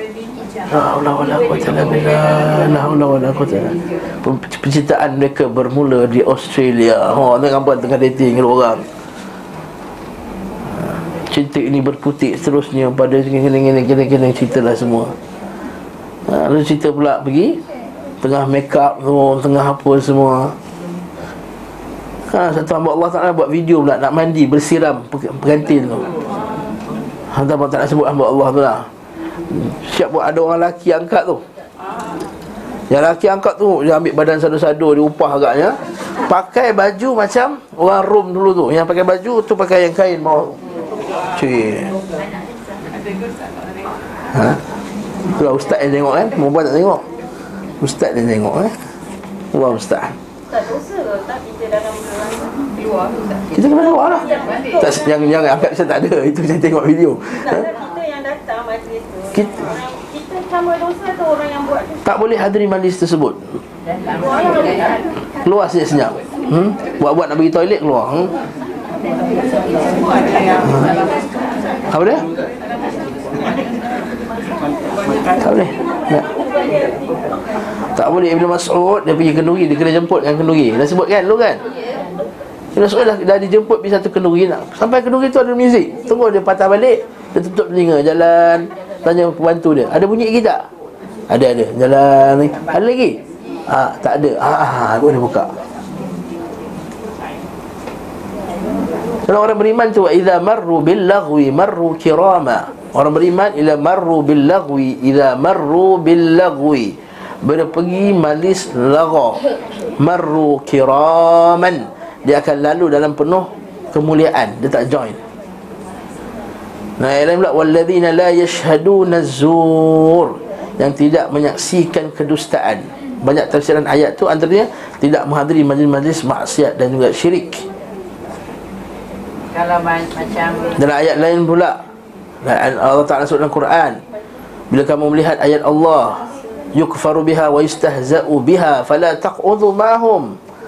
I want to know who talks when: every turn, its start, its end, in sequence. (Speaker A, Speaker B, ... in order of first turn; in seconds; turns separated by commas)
Speaker A: 0.7-8.8, Speaker A: 11.2-15.1, Speaker A: 16.3-17.6, Speaker A: 18.2-20.6, Speaker A: 22.3-26.1, Speaker A: 27.3-28.9, Speaker A: 29.5-31.4, Speaker A: 32.9-40.6, Speaker A: 41.3-42.0, Speaker B: 42.7-44.0, Speaker A: 44.3-44.6, Speaker A: 45.3-47.0, Speaker A: 47.8-48.7, Speaker A: 49.5-50.2, Speaker C: 50.5-52.7, Speaker A: 53.5-57.7, Speaker B: 54.3-54.6, Speaker C: 54.3-54.9, Speaker C: 57.4-62.0, Speaker A: 59.3-59.7, Speaker A: 62.0-63.6, Speaker B: 63.9-65.0, Speaker A: 65.4-68.3, Speaker B: 69.4-71.2, Speaker A: 70.6-70.9, Speaker A: 71.9-72.3, Speaker B: 72.8-73.7, Speaker A: 75.4-76.3, Speaker C: 76.2-77.2, Speaker A: 78.0-81.6, Speaker A: 82.8-90.6, Speaker A: 91.3-95.5, Speaker A: 99.3-109.4, Speaker A: 110.0-115.2, Speaker A: 117.0-127.7, Speaker B: 129.5-130.8, Speaker A: 130.8-131.8, Speaker A: 132.4-134.0, Speaker A: 134.7-140.3